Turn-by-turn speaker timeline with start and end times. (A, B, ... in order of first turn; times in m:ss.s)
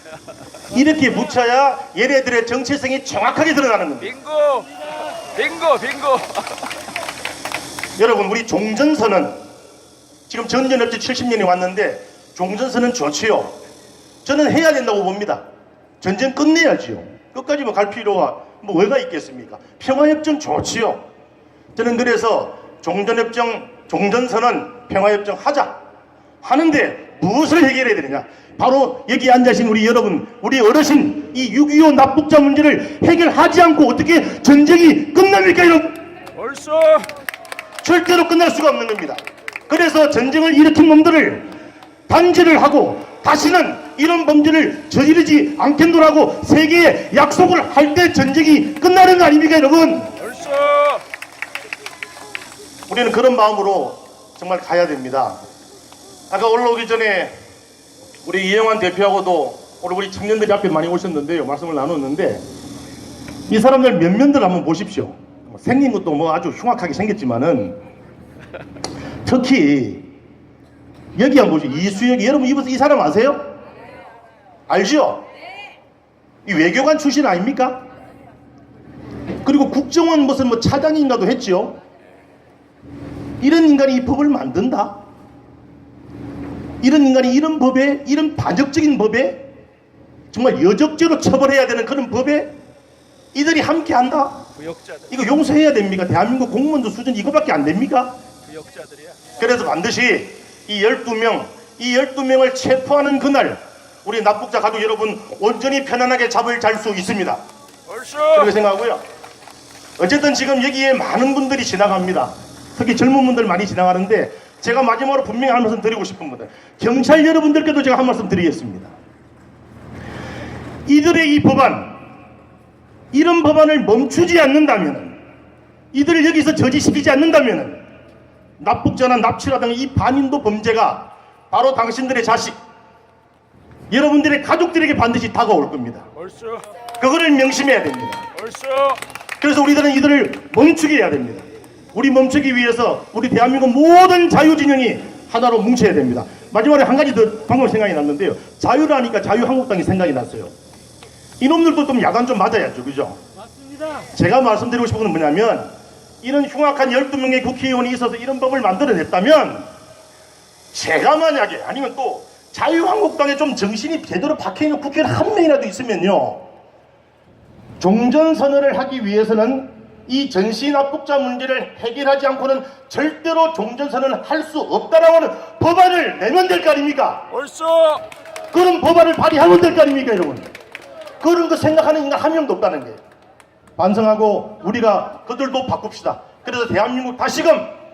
0:00.7-0:04.1 A
0:04.1-0:04.7 B
0:05.4-0:06.6 B
0:08.0-0:09.4 A
0:10.3-0:13.6 A
0:14.2-0:15.4 A
0:16.0-0:21.0 A
0:21.8-0:25.8 A
0:26.4-0:36.0 A
0:36.3-0:37.1 B
0:37.8-0:41.5 A
0:42.1-0:50.2 A
0:50.2-0:51.0 B
0:52.9-0:55.4 A
0:56.3-0:57.3 A
0:58.2-1:02.4 A
1:03.5-1:07.8 A
1:09.2-1:10.1 A
1:11.1-1:13.5 A
1:14.7-1:15.2 A
1:16.4-1:17.8 A
1:19.4-1:21.8 A
1:23.4-1:25.0 A
1:26.8-1:29.5 A
1:30.3-1:32.5 A
1:33.3-1:34.5 A
1:35.1-1:38.2 A
1:38.5-1:39.1 B
1:39.4-1:47.4 A
1:47.9-1:48.5 B
1:48.3-1:49.0 A
1:50.0-1:58.9 A
2:00.9-2:02.0 A
2:03.1-2:05.2 A
2:05.9-2:07.8 A
2:08.6-2:12.6 A
2:13.9-2:16.1 A
2:16.2-2:16.6 B
2:17.0-2:18.3 A
2:18.3-2:19.0 B
2:19.4-2:30.5 A
2:31.4-2:33.2 A
2:34.1-2:35.7 A
2:36.2-2:39.7 A
2:40.7-2:46.4 A
2:47.8-2:57.3 A
2:57.3-2:58.0 B
2:58.5-3:00.5 A
3:01.2-3:03.0 A
3:03.8-3:07.7 A